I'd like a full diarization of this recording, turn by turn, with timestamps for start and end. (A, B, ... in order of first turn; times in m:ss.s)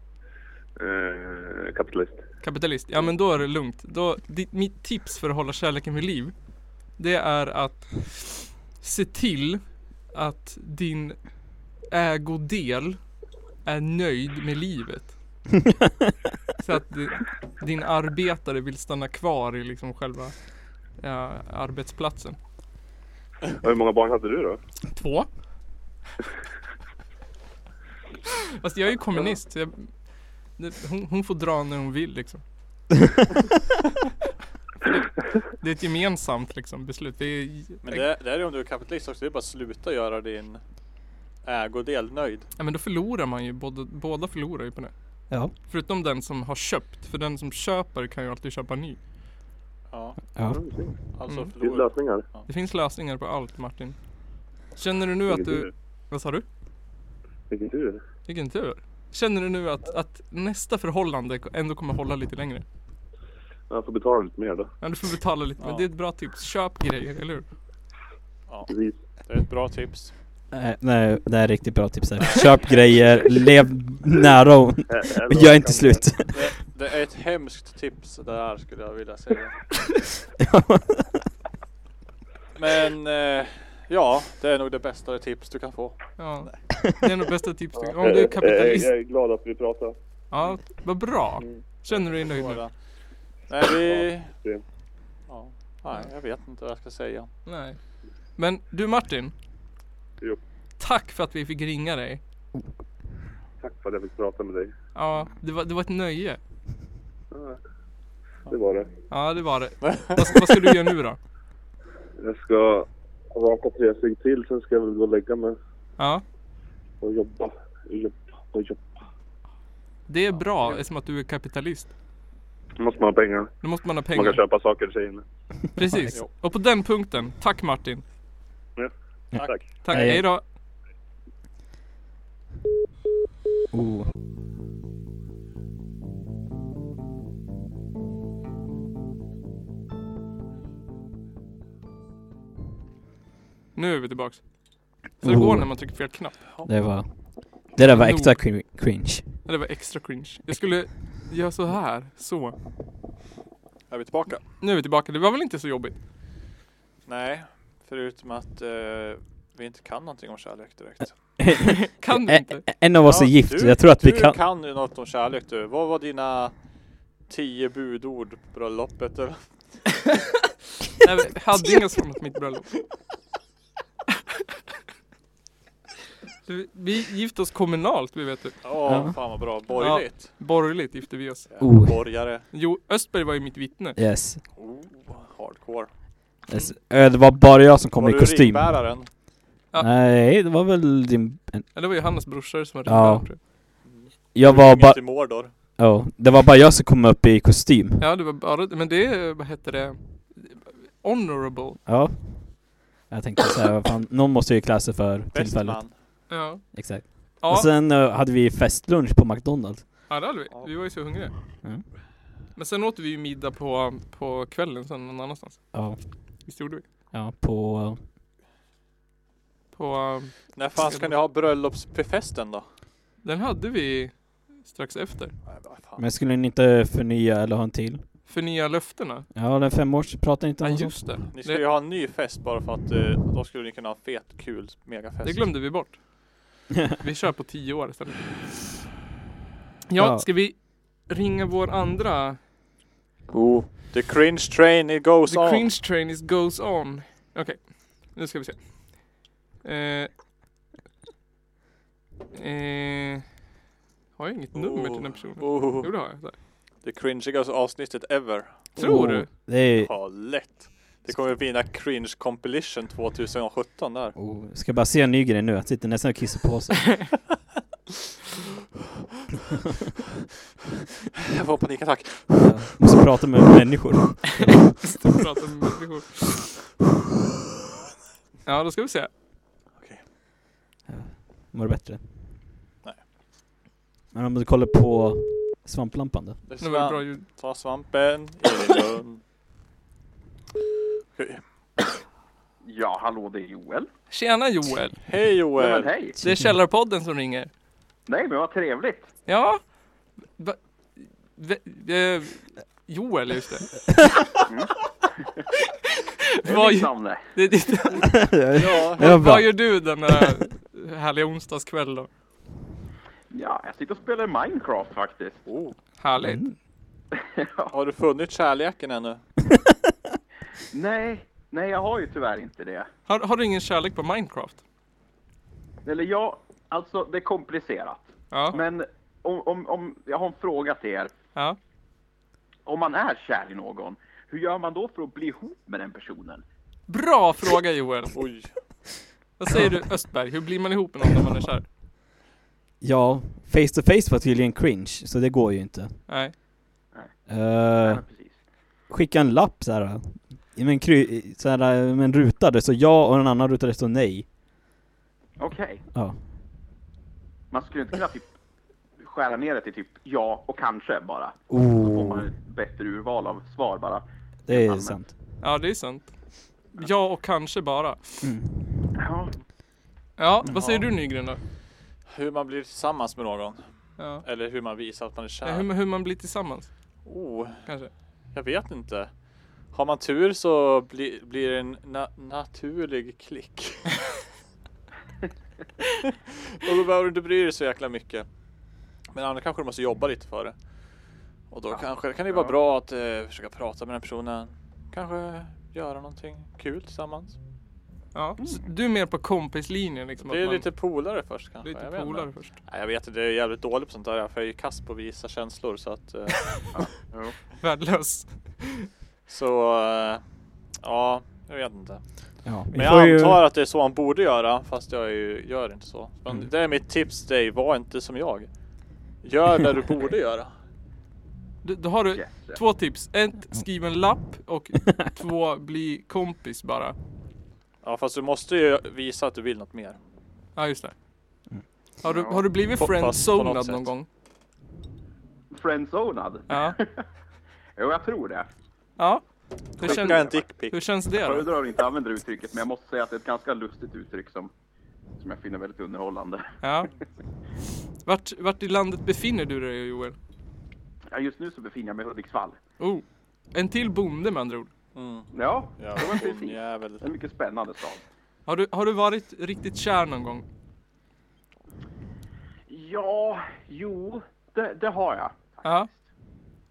0:00.8-0:02.2 A
0:02.4-0:15.1 B
0:16.6-0:20.4 B
0:21.0-0:22.4 B
0:23.5-0:24.6 A
0:24.9-0:25.3 B
0:28.6-0:32.4 B
0:35.5-0:38.1 B
0:37.8-0:40.6 C
0:41.4-0:42.5 C
0:42.6-0:44.9 B
0:45.5-0:49.0 B
0:49.9-0:50.2 C
0:50.4-0:50.6 D
0:50.5-0:50.9 A
0:51.1-0:52.5 C
0:51.6-0:52.3 A
0:52.5-0:54.0 B
0:54.7-0:56.4 B
0:55.3-0:55.7 A
0:57.5-0:58.0 A
0:58.3-1:02.6 B
1:03.7-1:04.7 A
1:04.8-1:07.5 B
1:05.6-1:05.9 C
1:08.7-1:09.0 A
1:09.2-1:10.1 C
1:10.5-1:16.4 D
1:12.2-1:13.0 C
1:14.9-1:16.2 A
1:16.3-1:19.6 C
1:20.4-1:21.2 D
1:22.5-1:26.6 C
1:26.2-1:28.9 B
1:27.9-1:29.9 A
1:30.3-1:32.6 B
1:31.9-1:32.8 C
1:33.5-1:34.4 C
1:33.7-1:34.6 A
1:35.3-1:37.3 C
1:37.4-1:39.3 B
1:40.8-1:42.2 B
1:43.6-1:44.7 A
1:44.9-1:46.4 B
1:47.3-1:47.6 A
1:48.4-1:48.9 A
1:49.1-1:51.2 B
1:49.8-1:50.4 C
1:52.2-1:55.6 A
1:56.0-1:56.2 B
1:57.0-1:58.9 A
2:00.1-2:01.9 B
2:02.8-2:03.5 A
2:03.6-2:04.4 B
2:04.1-2:05.2 A
2:05.8-2:08.0 B
2:05.8-2:06.1 D
2:08.8-2:09.6 A
2:09.3-2:10.3 D
2:09.8-2:10.4 B
2:13.7-2:14.1 D
2:23.7-2:24.5 B
2:25.1-2:26.4 B
2:25.2-2:26.1 D
2:26.6-2:29.4 D
2:27.9-2:28.4 B
2:29.4-2:32.6 B
2:33.9-2:34.4 C
2:34.6-2:36.0 B
2:37.0-2:41.5 C
2:41.4-2:44.4 D
2:41.6-2:42.7 B
2:43.0-2:46.6 C
2:47.2-2:49.9 C
2:51.0-2:52.8 B
2:56.4-2:58.6 B
2:58.6-3:00.4 C
2:58.8-2:59.2 D
2:59.8-3:04.0 B
3:01.5-3:02.4 C
3:01.6-3:02.1 D
3:04.0-3:04.4 D
3:04.6-3:05.9 C
3:06.5-3:09.0 D
3:08.0-3:09.1 C
3:09.8-3:11.8 D
3:11.7-3:13.4 B
3:12.8-3:13.5 D
3:13.8-3:15.5 C
3:14.3-3:18.0 D
3:18.0-3:21.8 B
3:21.8-3:30.1 D
3:25.3-3:26.0 C
3:26.3-3:27.7 B
3:30.1-3:31.3 B
3:32.6-3:36.8 B
3:35.7-3:36.0 D
3:37.1-3:38.0 D
3:39.7-3:41.1 B
3:40.6-3:42.7 C
3:43.2-3:45.3 B
3:45.5-3:46.0 C
3:46.0-3:48.0 D
3:48.3-3:49.3 B
3:49.3-3:51.0 D
3:50.6-3:51.6 B
3:51.3-3:55.5 C
3:55.2-3:56.4 B
3:57.0-3:58.3 B
3:59.9-4:02.4 B
4:00.0-4:00.3 D
4:03.3-4:05.7 C
4:05.3-4:10.1 B
4:12.3-4:13.2 B
4:14.2-4:16.4 B
4:14.5-4:19.0 C
4:18.8-4:19.3 B
4:18.8-4:20.1 D
4:19.6-4:24.2 C
4:24.2-4:27.2 D
4:31.2-4:32.8 C
4:32.4-4:34.9 D
4:34.8-4:36.4 B
4:38.4-4:39.1 B
4:39.8-4:40.0 C
4:40.9-4:42.4 D
4:44.1-4:46.4 D
4:46.4-4:49.2 C
4:46.6-4:47.2 B
4:51.1-4:51.4 C
4:52.6-4:53.9 E
4:54.1-4:55.0 B
4:55.0-4:55.9 C
4:55.6-4:56.2 E
4:56.2-4:57.5 B
4:56.2-4:56.5 D
4:58.1-4:59.1 E
4:59.3-4:59.6 B
5:00.3-5:03.8 B
5:04.5-5:05.2 E
5:06.4-5:12.1 B
5:06.4-5:07.2 E
5:08.0-5:10.0 D
5:08.5-5:09.1 C
5:13.3-5:15.4 E
5:15.4-5:15.8 C
5:16.0-5:16.4 B
5:16.2-5:16.6 D
5:17.2-5:17.7 E
5:17.7-5:19.2 C
5:20.7-5:22.9 E
5:23.1-5:24.6 B
5:25.8-5:31.1 E
5:28.3-5:28.6 B
5:32.6-5:36.4 E
5:36.9-5:38.2 B
5:38.1-5:38.6 C
5:39.4-5:41.7 B
5:42.8-5:46.0 D
5:46.1-5:46.3 B
5:47.3-5:48.0 D
5:47.8-5:48.3 E
5:48.9-5:54.3 D
5:55.4-5:55.8 E
5:55.9-5:56.2 D
5:57.5-5:58.3 E
5:59.0-6:05.0 E
6:01.5-6:02.3 D
6:04.5-6:05.1 D
6:05.4-6:08.3 B
6:08.2-6:08.9 D
6:09.0-6:09.3 E
6:10.2-6:11.4 B
6:10.5-6:10.9 C
6:12.1-6:15.7 C
6:14.0-6:14.2 B
6:15.4-6:16.7 B
6:17.0-6:17.7 C
6:17.6-6:17.9 B
6:18.3-6:19.1 C
6:19.7-6:23.9 C
6:26.5-6:28.3 C
6:29.1-6:30.6 C
6:31.5-6:37.4 C
6:31.7-6:32.5 E
6:38.1-6:40.7 B
6:40.2-6:46.7 C
6:41.6-6:42.5 B
6:46.7-6:47.4 E
6:47.5-6:48.9 B
6:49.3-6:50.2 C
6:50.8-6:52.0 C
6:52.4-6:53.4 D
6:52.7-6:58.5 C
6:59.2-7:00.5 C
7:01.6-7:07.0 B
7:02.1-7:02.6 E
7:07.8-7:10.0 C
7:10.6-7:10.9 B
7:12.0-7:14.1 B
7:12.0-7:12.4 E
7:12.8-7:13.9 C
7:15.5-7:17.0 E
7:16.5-7:16.8 B
7:17.8-7:18.5 E
7:19.0-7:21.5 B
7:19.8-7:20.8 C
7:19.8-7:20.4 E
7:21.1-7:24.5 E
7:25.2-7:26.4 E
7:26.6-7:26.9 B
7:28.0-7:30.2 B
7:31.1-7:32.6 E
7:32.8-7:34.7 B
7:34.9-7:37.0 C
7:35.3-7:38.0 E
7:38.4-7:40.4 B
7:42.7-7:46.0 E